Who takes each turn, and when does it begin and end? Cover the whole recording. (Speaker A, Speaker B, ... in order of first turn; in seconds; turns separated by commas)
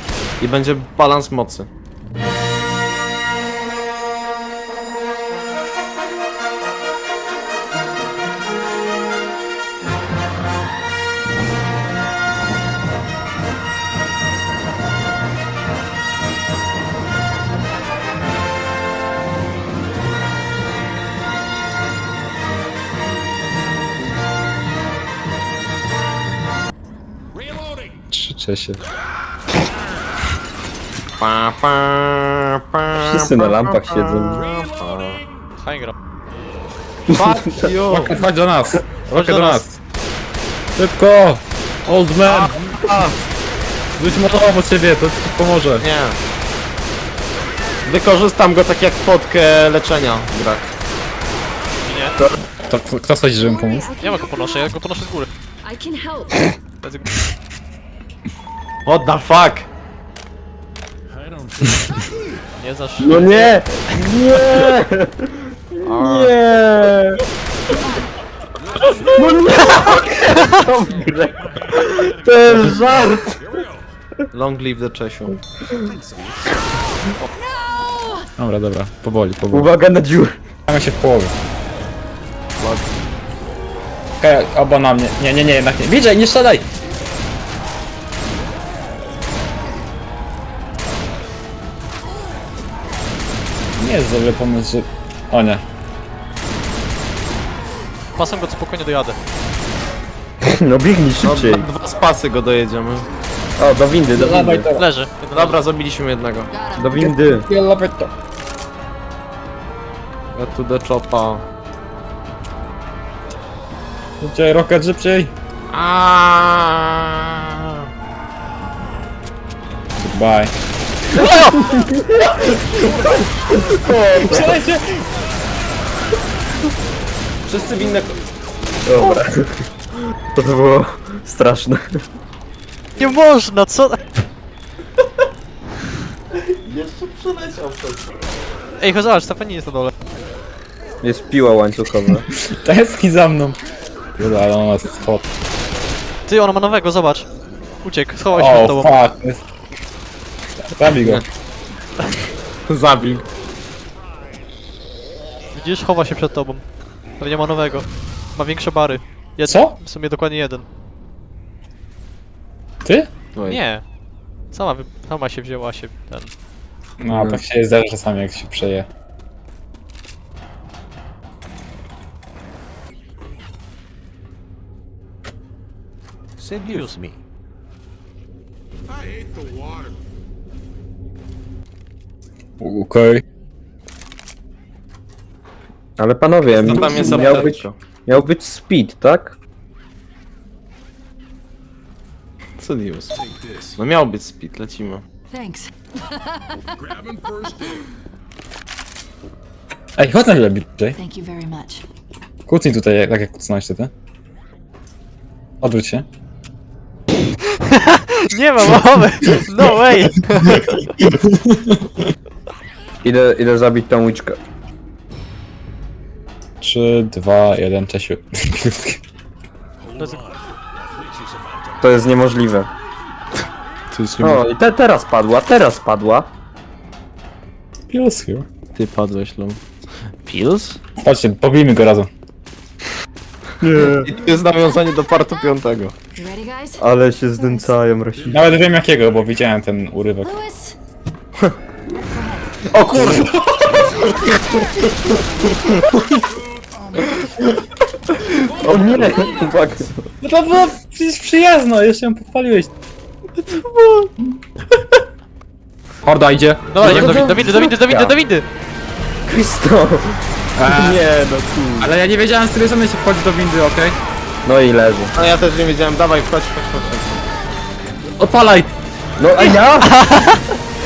Speaker A: 0.4-1.7, Speaker B: 27.3-28.0, Speaker C: 28.1-28.8, Speaker A: 31.2-35.2, Speaker D: 33.0-34.5, Speaker B: 34.3-35.5, Speaker E: 35.6-35.9, Speaker D: 37.1-37.7, Speaker A: 37.1-38.2, Speaker C: 37.9-39.8, Speaker E: 39.1-39.7, Speaker C: 40.8-42.7, Speaker A: 42.2-43.2, Speaker C: 44.0-45.9, Speaker A: 45.8-46.2, Speaker A: 47.9-50.7, Speaker E: 51.8-52.2, Speaker C: 52.6-53.9, Speaker F: 53.4-54.8, Speaker E: 54.0-55.3, Speaker F: 55.6-56.6, Speaker E: 56.8-57.3, Speaker A: 58.9-59.7, Speaker B: 61.1-62.4, Speaker E: 62.6-64.1, Speaker D: 63.0-67.2, Speaker A: 65.8-66.3, Speaker F: 67.7-68.1, Speaker B: 68.5-73.9, Speaker D: 69.1-73.4, Speaker A: 72.3-73.1, Speaker A: 74.3-75.4, Speaker B: 75.8-76.6, Speaker F: 77.4-78.3, Speaker C: 78.4-79.7, Speaker D: 79.5-80.4, Speaker C: 80.7-81.3, Speaker A: 82.6-82.8, Speaker C: 84.2-86.7, Speaker C: 93.8-95.6, Speaker E: 98.2-99.2, Speaker D: 100.4-101.7, Speaker A: 101.2-103.1, Speaker D: 103.6-104.7, Speaker C: 104.1-104.9, Speaker E: 104.8-105.6, Speaker A: 105.3-106.5, Speaker F: 106.5-107.0, Speaker D: 106.8-107.5, Speaker C: 106.9-108.1, Speaker A: 110.3-111.5, Speaker C: 114.2-115.3, Speaker A: 115.7-117.8, Speaker C: 120.0-120.5, Speaker A: 121.1-121.6, Speaker D: 121.2-124.6, Speaker B: 123.1-123.7, Speaker C: 124.2-125.0, Speaker A: 127.5-128.2, Speaker D: 128.9-129.7, Speaker D: 130.3-132.1, Speaker E: 133.0-134.0, Speaker A: 136.4-138.1, Speaker E: 138.8-139.9, Speaker D: 141.0-142.2, Speaker C: 142.3-143.6, Speaker C: 144.2-145.3, Speaker E: 146.3-147.3, Speaker E: 147.8-149.0, Speaker C: 148.3-149.4, Speaker C: 150.8-151.2, Speaker A: 152.7-153.2, Speaker E: 155.5-156.6, Speaker E: 157.2-160.7, Speaker C: 159.5-159.8, Speaker A: 163.4-163.6, Speaker E: 163.5-163.8, Speaker E: 164.5-166.3, Speaker C: 167.0-168.9, Speaker D: 167.1-167.4, Speaker B: 176.4-177.2, Speaker E: 176.7-177.0, Speaker B: 178.9-179.9, Speaker C: 182.6-183.2, Speaker D: 186.0-189.4, Speaker A: 186.5-187.8, Speaker C: 186.6-187.4, Speaker A: 192.6-193.2, Speaker B: 193.2-193.8, Speaker A: 193.8-195.0, Speaker F: 195.3-196.6, Speaker B: 196.7-197.9, Speaker C: 200.0-201.0, Speaker F: 201.0-201.8, Speaker C: 202.5-203.9, Speaker C: 205.6-206.1, Speaker E: 207.4-210.8, Speaker C: 210.6-211.9, Speaker D: 213.0-214.4, Speaker C: 216.6-219.0, Speaker B: 219.8-222.1, Speaker E: 220.0-220.3, Speaker D: 221.8-222.7, Speaker A: 223.9-224.4, Speaker D: 224.2-226.3, Speaker C: 227.9-228.5, Speaker A: 228.8-229.6, Speaker A: 230.2-230.8, Speaker C: 231.0-232.1, Speaker D: 233.6-234.1, Speaker A: 233.8-235.9, Speaker F: 236.2-237.8, Speaker D: 236.8-238.6, Speaker C: 238.3-240.3, Speaker B: 238.3-239.3, Speaker F: 240.2-240.8, Speaker F: 241.9-242.7, Speaker D: 242.7-243.3, Speaker A: 242.8-243.2, Speaker C: 242.9-243.3, Speaker B: 243.7-244.2, Speaker D: 244.2-245.1, Speaker B: 246.3-247.6, Speaker D: 248.2-249.9, Speaker B: 248.4-249.5, Speaker C: 250.2-252.7, Speaker A: 253.4-254.1, Speaker C: 256.1-257.4, Speaker E: 256.7-258.5, Speaker D: 256.8-258.1, Speaker D: 259.2-261.9, Speaker C: 260.6-261.0, Speaker C: 261.8-264.0, Speaker D: 264.4-265.1, Speaker A: 265.1-267.2, Speaker C: 268.2-268.7, Speaker D: 269.2-270.2, Speaker E: 269.8-270.4